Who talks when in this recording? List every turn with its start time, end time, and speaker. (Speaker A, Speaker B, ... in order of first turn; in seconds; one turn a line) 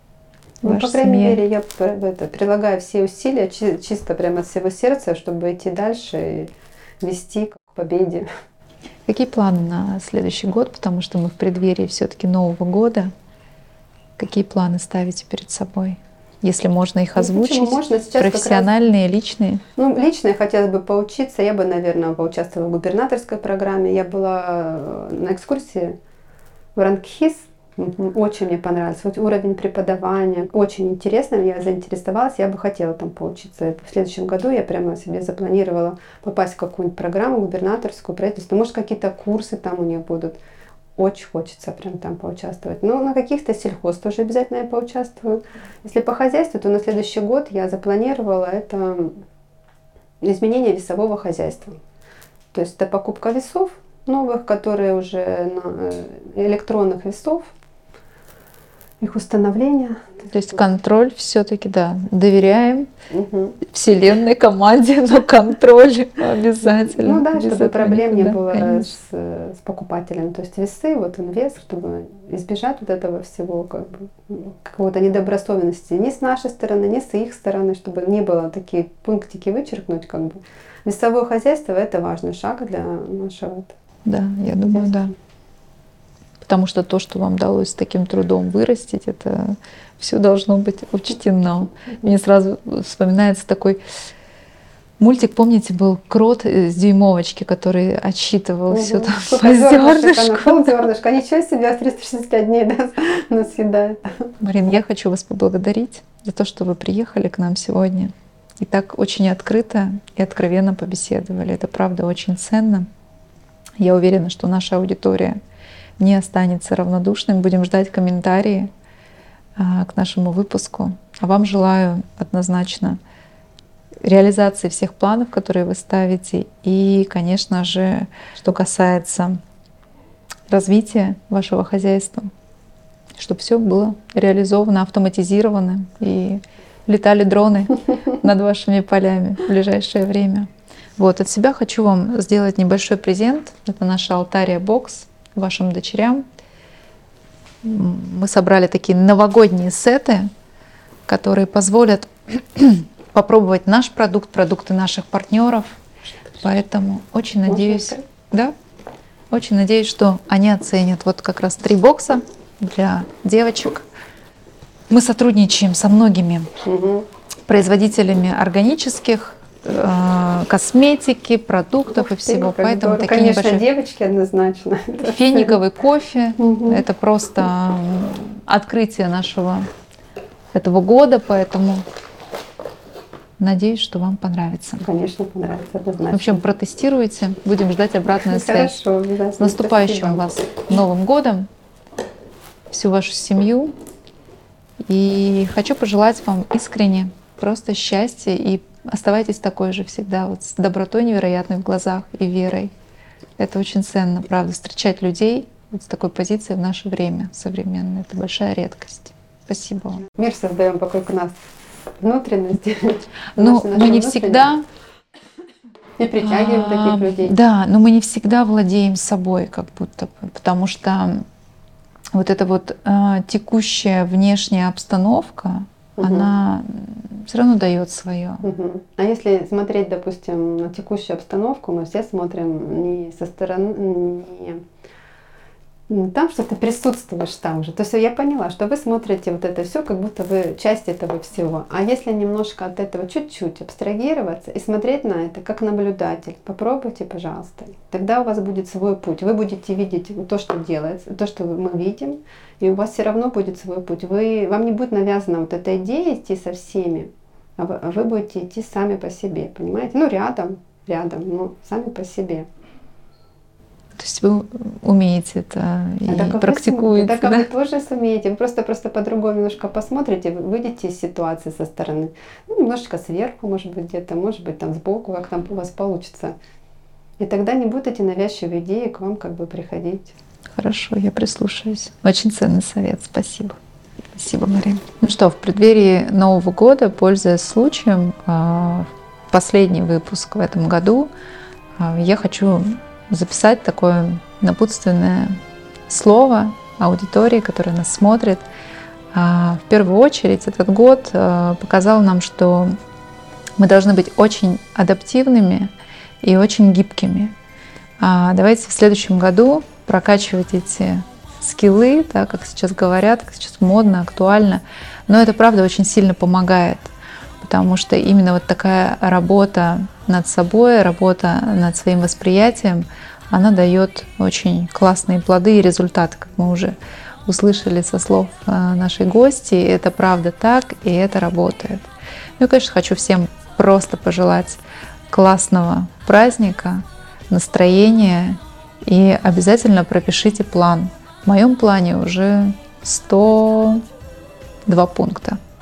Speaker A: 0.6-1.4
Speaker B: 0.6-8.3
Speaker A: 9.1-13.1
Speaker A: 14.2-19.6
Speaker B: 17.2-18.7
Speaker B: 19.8-26.0
Speaker B: 26.8-40.4
Speaker B: 41.0-49.2
Speaker B: 50.2-51.8
Speaker B: 52.5-57.5
Speaker B: 59.0-60.3
Speaker A: 60.3-62.9
Speaker B: 63.1-63.6
Speaker A: 63.6-68.9
Speaker B: 67.0-83.7
Speaker A: 84.0-85.1
Speaker B: 84.6-84.9
Speaker A: 86.4-93.8
Speaker A: 95.0-100.8
Speaker B: 98.7-104.3
Speaker A: 104.4-112.9
Speaker A: 113.8-115.4
Speaker A: 116.0-118.7
Speaker A: 119.6-123.0
Speaker A: 124.0-129.4
Speaker A: 130.5-132.3
Speaker A: 133.2-146.2
Speaker A: 147.6-150.3
Speaker A: 151.1-155.8
Speaker A: 156.4-158.5
Speaker B: 157.5-158.0
Speaker A: 159.3-163.8
Speaker A: 164.9-166.5
Speaker B: 166.6-167.1
Speaker A: 167.5-173.7
Speaker B: 171.9-175.6
Speaker A: 175.0-179.7
Speaker B: 176.4-176.8
Speaker A: 180.5-181.8
Speaker A: 183.4-184.8
Speaker B: 184.8-186.4
Speaker A: 186.1-188.8
Speaker B: 188.2-190.2
Speaker A: 189.4-191.5
Speaker A: 192.7-193.7
Speaker A: 194.8-202.7
Speaker A: 203.4-210.1
Speaker B: 210.1-211.3
Speaker B: 212.0-214.6
Speaker A: 213.3-214.7
Speaker B: 216.0-217.4
Speaker A: 216.2-221.2
Speaker A: 222.1-228.4
Speaker B: 226.0-226.3
Speaker B: 228.4-234.6
Speaker B: 235.9-262.5
Speaker A: 264.0-267.5
Speaker B: 266.1-276.4
Speaker B: 277.2-280.1
Speaker A: 280.5-283.6
Speaker A: 284.1-291.1
Speaker A: 291.8-298.5
Speaker A: 299.1-302.8
Speaker A: 303.6-307.4
Speaker A: 308.0-326.8
Speaker A: 327.3-331.9
Speaker A: 332.4-343.8
Speaker A: 344.7-345.4